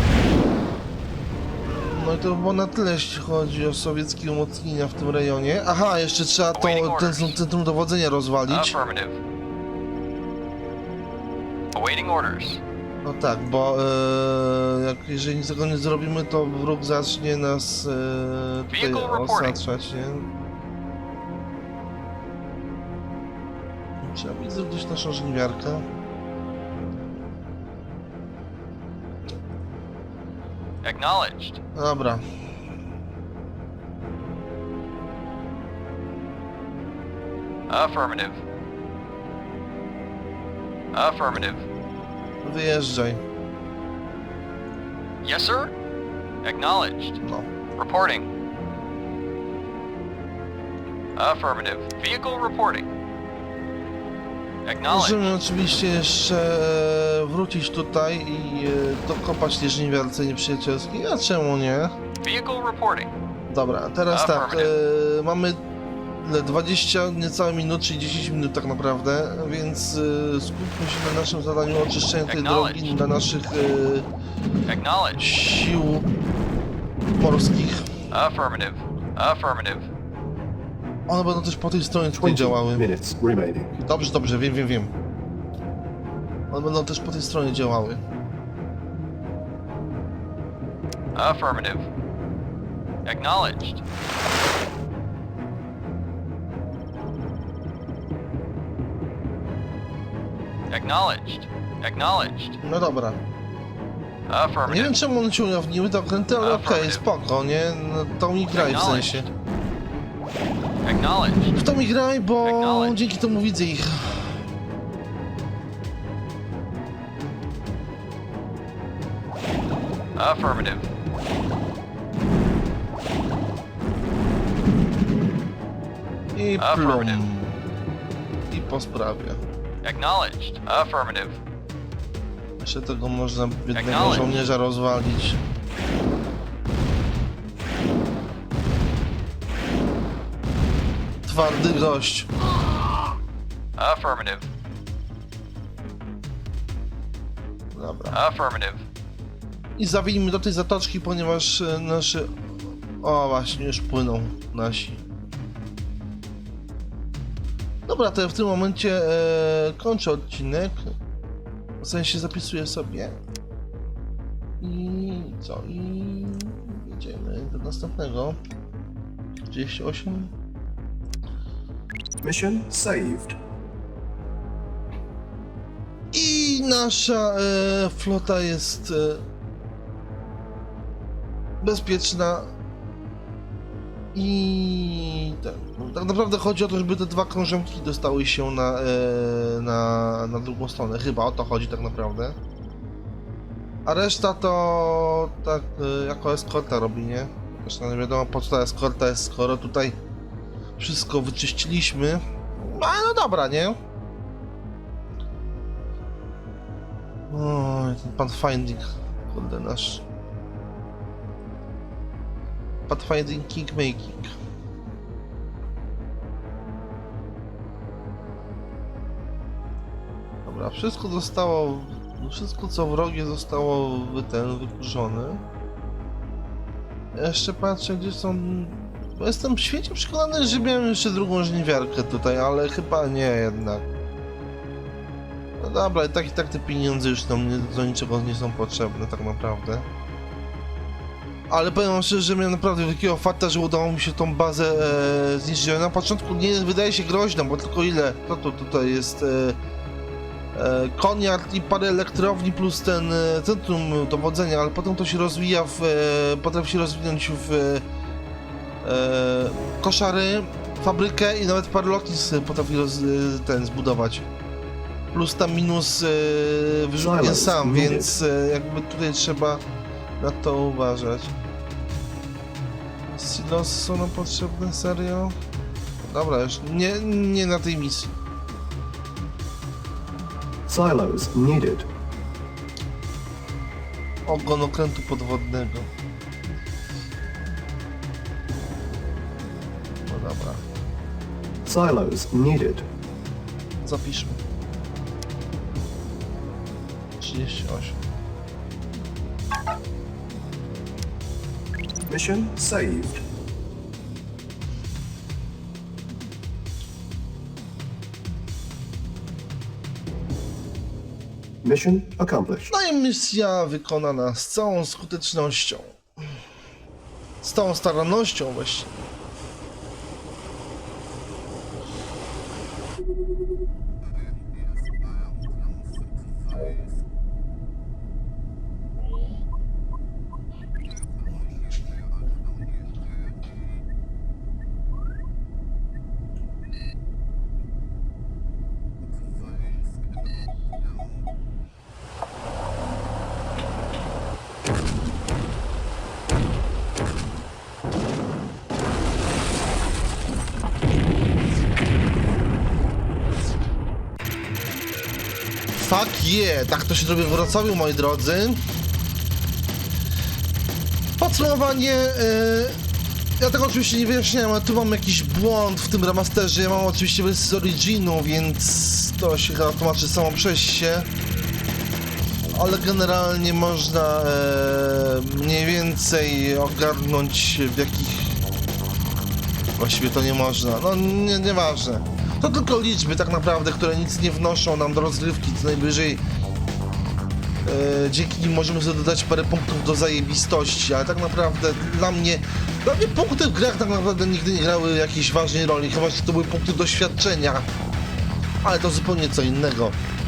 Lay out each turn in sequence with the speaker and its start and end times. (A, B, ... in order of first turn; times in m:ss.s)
0:01.9-0:08.8 A
0:06.6-0:07.4 B
0:08.5-0:09.2 B
0:11.7-0:12.6 B
0:13.0-0:20.3 A
0:18.7-0:19.6 B
0:24.0-0:25.8 A
0:30.8-0:31.6 B
0:31.7-0:32.2 A
0:37.7-0:38.4 B
0:40.9-0:41.6 B
0:42.4-0:43.2 A
0:45.2-0:45.7 B
0:46.4-0:47.2 B
0:47.2-0:47.5 A
0:47.8-0:48.3 B
0:51.1-0:52.9 B
0:54.6-0:55.3 B
0:54.8-1:01.9 A
1:02.2-1:03.1 B
1:03.5-1:05.6 A
1:04.1-1:04.7 B
1:06.1-1:14.1 A
1:12.2-1:13.0 B
1:14.7-1:15.2 B
1:15.1-1:16.1 A
1:17.1-1:17.9 A
1:18.1-1:19.9 B
1:21.1-1:22.9 A
1:22.1-1:23.8 C
1:23.8-1:24.9 A
1:26.5-1:28.0 A
1:31.1-1:31.9 B
1:33.0-1:33.8 B
1:40.7-1:42.6 B
1:42.6-1:43.2 A
1:44.3-1:44.9 B
1:44.7-1:49.3 A
1:46.4-1:47.0 B
1:48.5-1:49.3 B
1:50.8-1:51.5 B
1:51.5-1:54.4 A
1:52.4-1:53.0 B
2:00.2-2:00.9 B
2:06.3-2:07.6 A
2:06.6-2:07.2 B
2:08.5-2:09.4 A
2:09.8-2:11.4 B
2:12.6-2:15.4 A
2:13.7-2:14.3 B
2:21.2-2:22.3 A
2:23.8-2:24.5 B
2:27.7-2:28.2 A
2:28.1-2:28.8 B
2:29.8-2:35.0 A
2:37.9-2:40.9 A
2:41.8-2:43.2 A
2:44.6-2:48.4 A
2:49.5-2:50.3 A
2:52.2-2:53.4 C
2:56.1-2:59.2 A
3:01.6-3:02.5 A
3:04.1-3:12.4 A
3:13.8-3:20.0 A
3:20.8-3:23.8 A
3:27.3-3:30.0 A
3:32.9-3:34.3 A
3:40.4-3:45.4 A
3:47.1-3:53.8 A
3:55.6-3:59.9 A
4:01.5-4:09.6 A
4:10.5-4:17.8 A
4:18.8-4:24.2 A
4:25.1-4:29.6 A
4:27.0-4:28.2 C
4:30.2-4:31.3 A
4:33.1-4:35.4 A
4:36.0-4:38.2 A
4:40.7-4:41.9 C
4:44.2-4:45.9 A
4:50.1-4:50.6 A
4:51.6-4:52.9 C
4:53.8-4:54.4 A
4:57.2-4:58.0 A
5:02.0-5:03.2 C
5:11.6-5:12.7 C
5:12.7-5:16.0 A
5:17.4-5:19.0 A
5:55.8-5:58.6 A
6:01.2-6:02.8 A
6:03.4-6:11.1 A
6:12.5-6:18.4 A
6:19.8-6:26.2 A
6:27.6-6:37.7 A
6:38.6-6:40.0 A